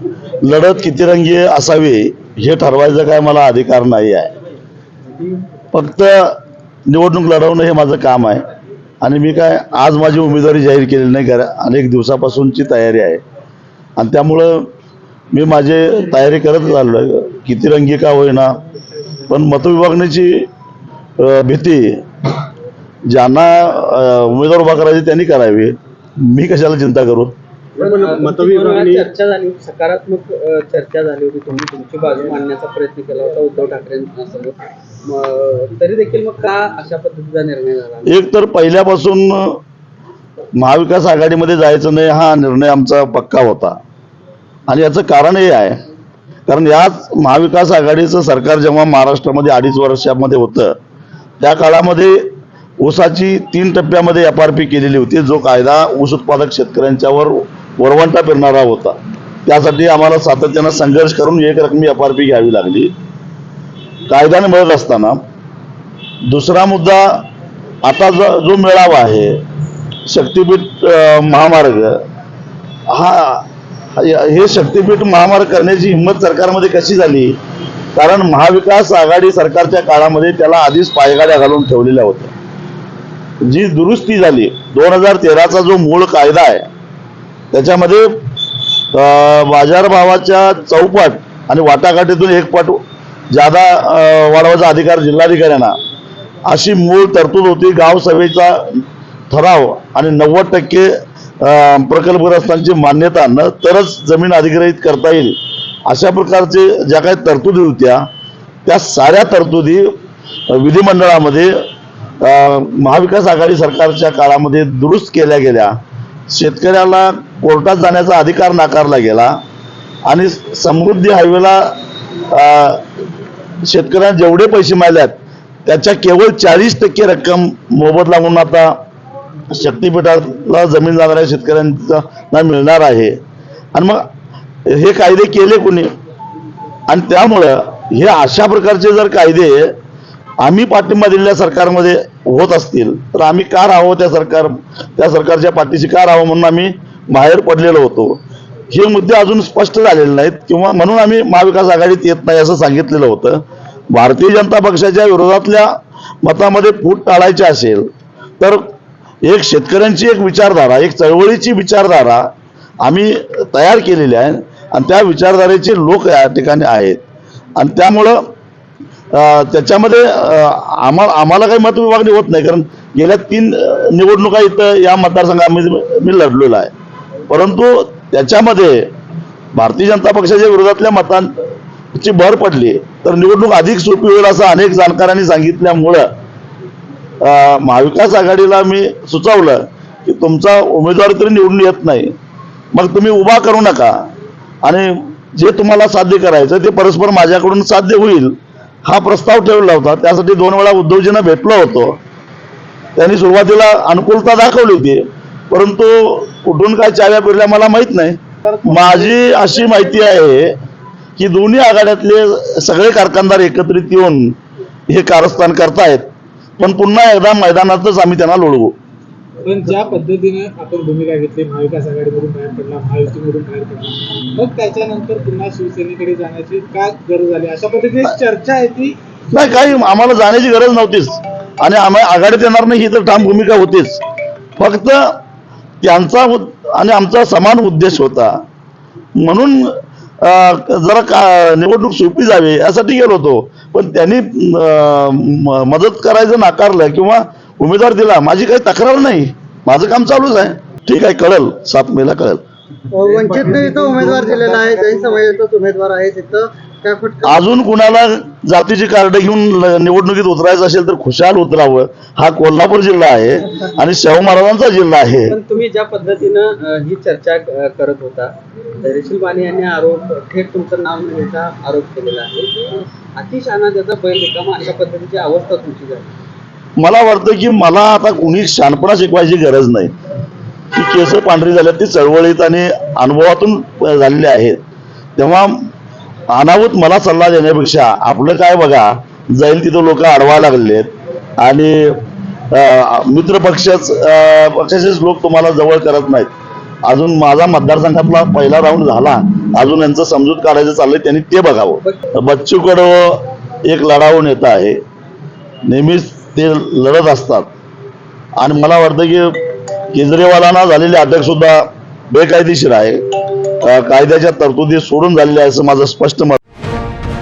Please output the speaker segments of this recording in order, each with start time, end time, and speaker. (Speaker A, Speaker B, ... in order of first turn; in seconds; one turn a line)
Speaker A: 0.4-4.3
Speaker A: 5.7-6.3
Speaker A: 6.9-8.4
Speaker A: 9.0-13.2
Speaker A: 14.0-14.7
Speaker A: 15.3-18.6
Speaker B: 18.7-19.2
Speaker A: 19.3-20.5
Speaker A: 21.2-22.0
Speaker A: 23.1-27.3
Speaker C: 27.8-38.2
Speaker B: 27.8-29.0
Speaker A: 38.0-39.6
Speaker A: 40.5-43.8
Speaker A: 44.7-45.8
Speaker A: 46.5-50.8
Speaker A: 51.4-62.9
Speaker A: 64.1-65.2
Speaker A: 66.3-67.2
Speaker A: 67.8-69.4
Speaker A: 70.0-72.0
Speaker A: 72.9-77.4
Speaker A: 77.9-82.3
Speaker A: 83.4-86.7
Speaker A: 87.5-88.1
Speaker A: 88.9-95.8
Speaker A: 96.5-108.0
Speaker A: 108.7-109.9
Speaker A: 110.5-111.5
Speaker A: 112.2-115.8
Speaker A: 116.3-119.4
Speaker A: 120.0-121.8
Speaker A: 122.3-122.8
Speaker A: 123.6-128.8
Speaker A: 129.5-133.2
Speaker A: 133.7-134.0
Speaker A: 134.7-135.9
Speaker A: 136.9-139.7
Speaker A: 140.4-148.2
Speaker A: 148.7-155.7
Speaker A: 156.2-157.9
Speaker A: 159.2-162.3
Speaker A: 162.8-167.0
Speaker A: 167.6-168.3
Speaker A: 169.1-176.7
Speaker A: 177.3-178.9
Speaker A: 179.5-186.1
Speaker A: 187.2-192.1
Speaker A: 192.7-193.9
Speaker A: 194.6-202.0
Speaker A: 202.9-210.6
Speaker B: 208.5-209.1
Speaker A: 211.2-214.4
Speaker A: 214.9-218.7
Speaker B: 219.4-229.4
Speaker A: 229.3-234.0
Speaker A: 234.6-235.2
Speaker A: 235.8-238.3
Speaker A: 239.2-252.4
Speaker D: 252.9-257.4
Speaker B: 253.1-255.2
Speaker A: 257.2-265.4
Speaker C: 265.3-276.1
Speaker A: 276.8-279.9
Speaker A: 280.7-284.6
Speaker A: 285.2-285.6
Speaker A: 286.3-292.0
Speaker A: 292.5-296.3
Speaker A: 296.9-304.8
Speaker A: 305.6-307.5
Speaker A: 308.4-309.4
Speaker A: 309.9-313.0
Speaker A: 313.6-316.4